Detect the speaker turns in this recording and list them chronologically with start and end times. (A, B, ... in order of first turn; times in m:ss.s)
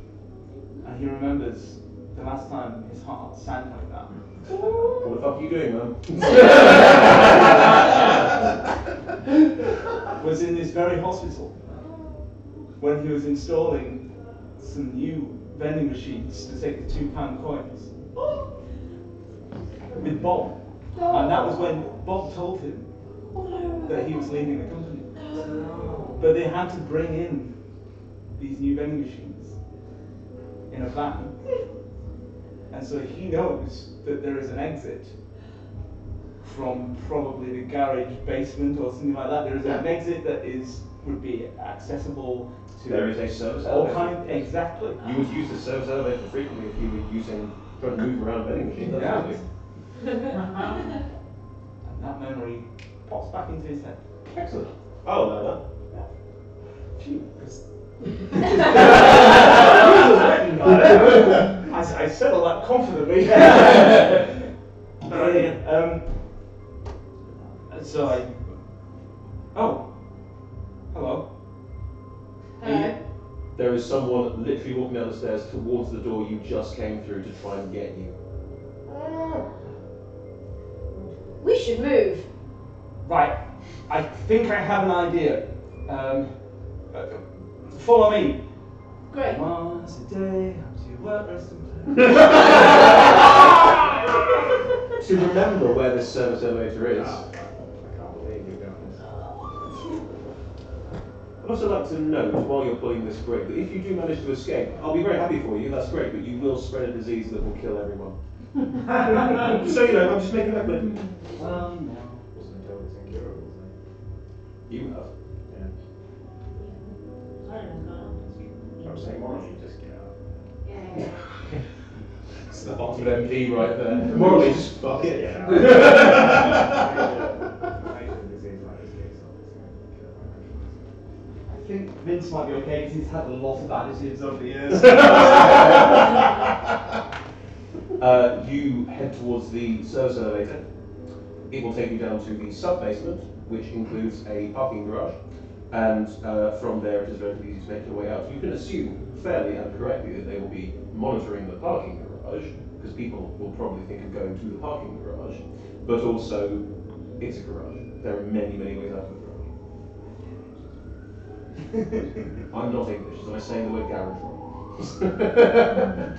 0:00.8-0:04.2 A
0:04.5-0:08.3 B
0:10.2-0:11.6 A
0:12.8-0:17.9 A
0:20.0-0:22.9 A
0:21.0-0:21.5 C
0:23.3-0:26.2 C
0:23.9-0:27.8 A
0:28.3-0:29.6 A
0:30.7-0:31.4 A
0:32.7-0:35.2 A
0:36.4-0:45.0 A
0:42.9-0:49.4 B
0:48.9-0:49.4 A
0:51.8-0:54.0 A
0:54.3-0:55.6 B
0:57.0-0:57.3 B
0:57.4-1:04.5 A
1:00.6-1:01.6 B
1:05.0-1:06.5 A
1:05.1-1:05.6 B
1:07.7-1:08.6 A
1:09.5-1:09.9 A
1:10.9-1:11.3 A
1:12.6-1:13.0 C
1:12.6-1:13.0 B
1:13.5-1:18.2 B
1:21.4-1:22.3 C
1:23.0-1:26.4 A
1:26.9-1:28.5 A
1:29.1-1:29.4 C
1:29.3-1:32.9 A
1:32.1-1:32.7 B
1:35.0-1:37.2 B
1:36.9-1:39.0 D
1:39.0-1:39.5 C
1:41.4-1:48.2 B
1:48.8-1:51.1 B
1:51.3-1:52.2 A
1:52.3-1:53.7 D
1:54.7-1:55.1 B
1:57.4-1:58.5 C
1:58.8-2:00.2 D
2:00.6-2:01.3 C
2:02.5-2:06.8 B
2:02.5-2:10.8 D
2:11.5-2:16.1 A
2:14.9-2:16.1 B
2:18.0-2:20.6 B
2:21.5-2:39.5 B
2:42.5-2:46.0 B